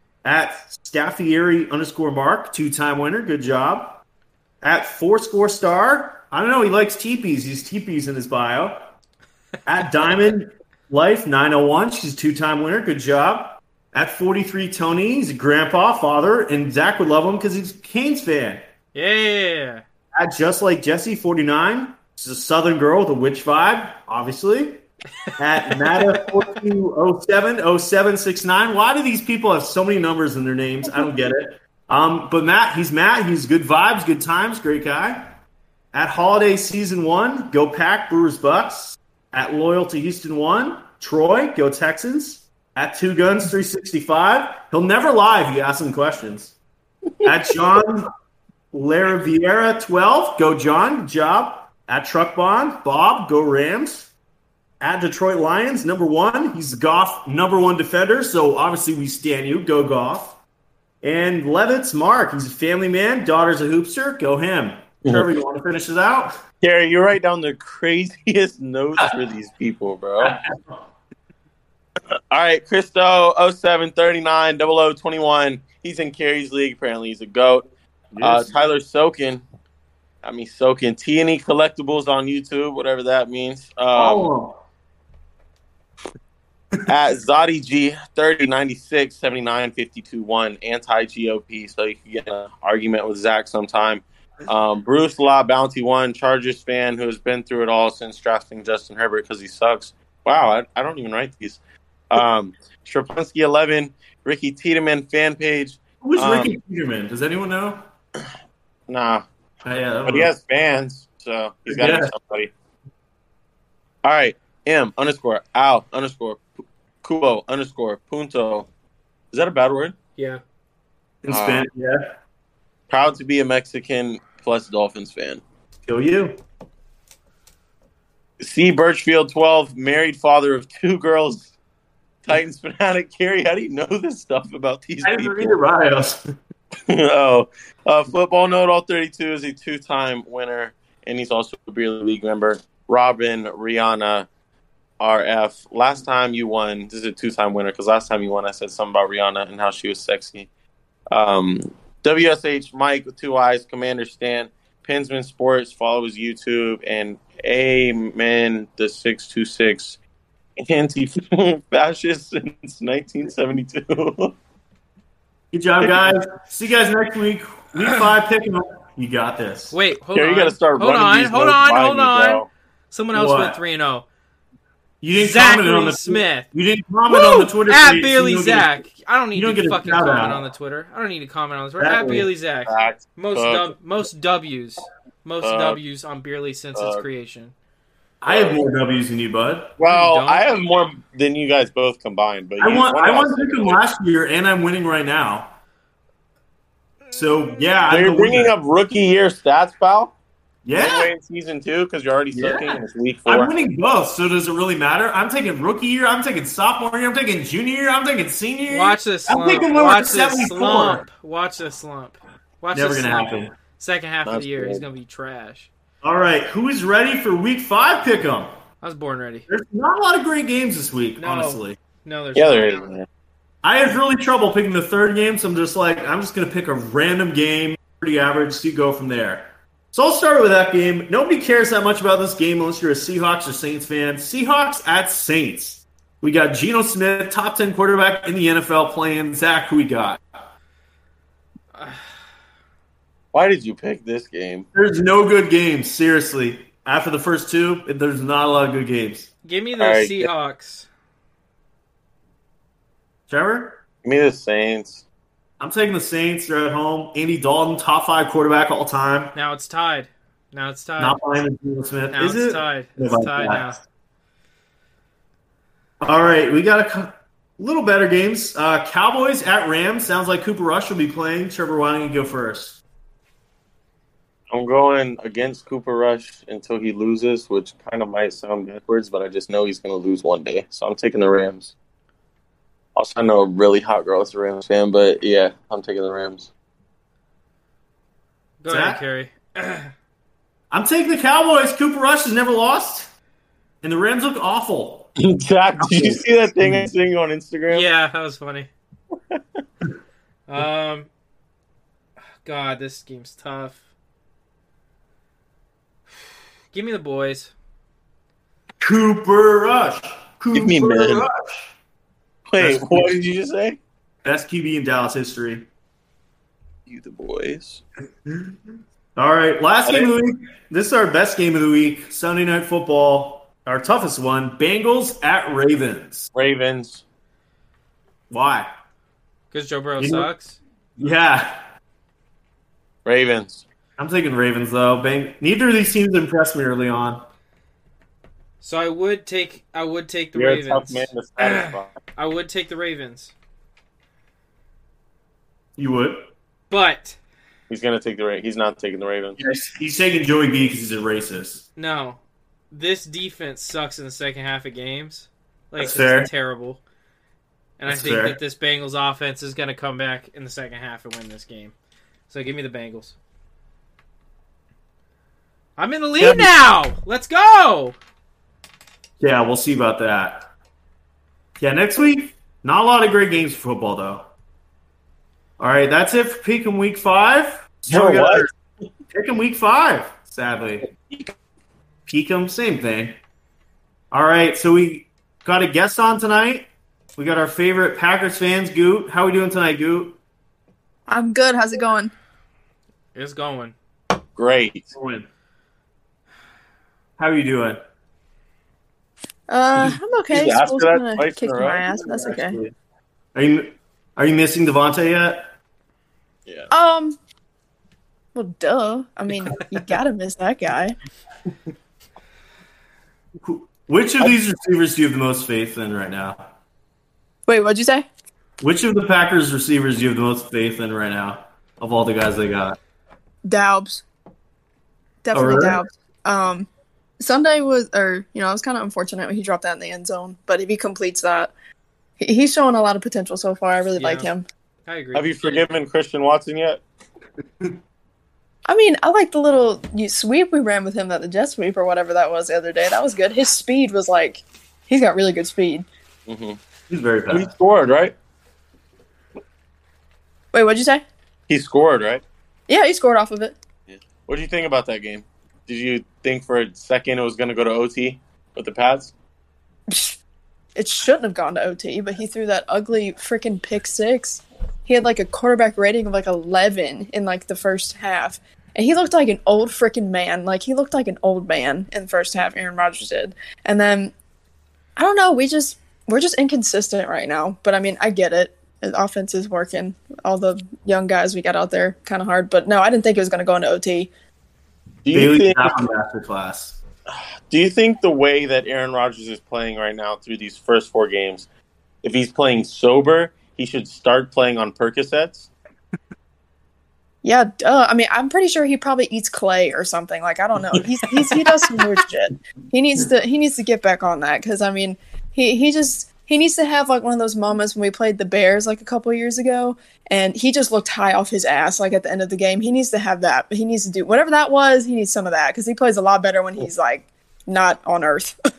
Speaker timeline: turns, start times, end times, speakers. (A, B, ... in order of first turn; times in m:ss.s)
0:00.2-0:04.0 A
0:04.6-0:08.9 A
0:09.6-0:18.6 A
0:18.9-0:19.8 B
0:20.1-0:24.8 A
0:25.4-0:35.3 A
0:35.9-0:46.5 A
0:47.2-0:48.1 A
0:48.7-0:54.1 A
0:54.8-1:00.4 A
1:01.0-1:06.4 A
1:06.6-1:10.3 C
1:10.2-1:10.8 A
1:12.1-1:17.7 C
1:18.1-1:18.5 A
1:18.2-1:19.4 C
1:20.2-1:24.3 C
1:23.9-1:24.6 A
1:26.9-1:46.5 C
1:46.0-1:47.8 A
1:48.9-1:49.2 C
1:49.6-1:50.3 A
1:50.0-1:52.5 C
1:51.7-1:52.1 A
1:54.0-1:56.5 C
1:57.0-1:58.7 C
1:59.3-2:00.0 C
2:01.2-2:02.2 A
2:01.3-2:01.6 C
2:02.9-2:05.4 C
2:05.8-2:06.4 A
2:08.4-2:11.5 C
2:12.2-2:15.6 C
2:15.0-2:16.2 A
2:16.9-2:24.3 C
2:25.0-2:30.5 C
2:31.1-2:40.0 C
2:40.6-2:44.3 C
2:45.5-2:49.8 A
2:49.7-2:54.0 B
2:50.1-2:52.5 C
2:53.1-2:53.6 A
2:55.0-2:58.7 A
2:55.1-2:56.5 B
2:57.1-3:07.5 B
2:59.3-3:00.4 A
3:01.8-3:02.3 A
3:02.6-3:03.7 C
3:05.4-3:05.8 C
3:06.7-3:07.0 C
3:08.2-3:09.8 A
3:08.3-3:08.6 C
3:09.8-3:13.8 C
3:09.8-3:10.4 B
3:12.6-3:15.5 A
3:17.1-3:18.5 A
3:17.9-3:20.1 C
3:20.6-3:21.1 A
3:20.8-3:23.5 C
3:22.3-3:31.0 A
3:28.7-3:35.7 B
3:32.7-3:33.5 A
3:34.2-3:34.8 C
3:36.0-3:38.5 A
3:38.8-3:39.5 B
3:39.5-3:41.8 A
3:41.2-3:42.8 B
3:42.3-3:43.0 C
3:43.6-4:00.2 A
4:01.7-4:02.0 B
4:03.3-4:04.7 C
4:04.7-4:09.3 A
4:09.4-4:10.9 B
4:09.8-4:10.3 C
4:13.3-4:13.8 A
4:14.0-4:15.0 C
4:15.6-4:19.3 A
4:19.3-4:21.2 B
4:21.0-4:23.8 A
4:22.1-4:23.8 B
4:26.0-4:32.8 A
4:34.5-4:41.7 C
4:43.0-4:46.5 C
4:48.6-4:49.9 B
4:48.7-4:49.0 A
4:50.7-4:53.1 A
4:53.8-4:55.1 A
4:55.2-4:57.9 C
4:55.8-4:56.9 A
4:57.7-4:58.7 B
5:00.5-5:01.1 B
5:02.4-5:03.8 B
5:06.7-5:07.5 B
5:08.8-5:11.7 A
5:10.5-5:11.2 C
5:12.5-5:13.8 C
5:12.6-5:13.2 A
5:14.2-5:15.6 A
5:16.8-5:17.8 C
5:18.3-5:18.5 A
5:19.2-5:26.3 A
5:19.8-5:20.1 C
5:26.3-5:27.0 C
5:28.3-5:28.7 A
5:29.5-5:30.6 B
5:30.0-5:30.3 A
5:31.0-5:31.6 A
5:33.0-5:33.6 C
5:34.0-5:37.2 A
5:38.6-5:43.3 B
5:40.3-5:41.9 C
5:45.8-5:46.3 A
5:46.7-5:47.2 B
5:47.7-5:49.4 C
5:49.4-5:51.6 A
5:51.8-5:52.2 B
5:52.7-5:56.8 B
5:55.8-5:56.3 A
5:57.8-6:01.7 B
5:57.9-5:58.4 A
6:02.3-6:03.1 B
6:05.8-6:08.0 B
6:06.2-6:06.5 A
6:09.2-6:10.5 A
6:11.6-6:14.3 A
6:15.6-6:18.5 A
6:17.9-6:18.5 C
6:19.1-6:20.9 A
6:22.1-6:23.2 A
6:24.1-6:30.2 A
6:31.1-6:32.1 D
6:33.1-6:33.7 B
6:34.4-6:34.9 C
6:34.9-6:35.3 A
6:37.2-6:37.8 A
6:39.5-6:42.6 D
6:40.3-6:41.8 C
6:41.9-6:42.7 A
6:43.3-6:45.5 A
6:46.7-6:47.2 D
6:48.3-6:51.0 D
6:53.4-6:56.4 A
6:57.5-6:58.0 D
6:58.6-7:02.8 A
7:03.4-7:04.0 D
7:05.2-7:06.7 D
7:05.3-7:05.8 A
7:07.2-7:11.5 D
7:12.2-7:14.4 D
7:14.0-7:14.3 B
7:14.8-7:15.7 B
7:15.1-7:16.8 C
7:18.7-7:25.8 D
7:26.3-7:26.6 C
7:26.9-7:27.5 A
7:27.3-7:28.1 C
7:30.5-7:31.0 D
7:31.5-7:32.2 C
7:32.7-7:33.6 D
7:33.9-7:39.1 C
7:39.9-7:40.2 D
7:40.8-7:54.1 D
7:55.0-8:04.1 D
8:05.0-8:05.8 C
8:05.1-8:06.8 A
8:07.1-8:11.5 C
8:12.0-8:15.5 C
8:17.2-8:38.3 D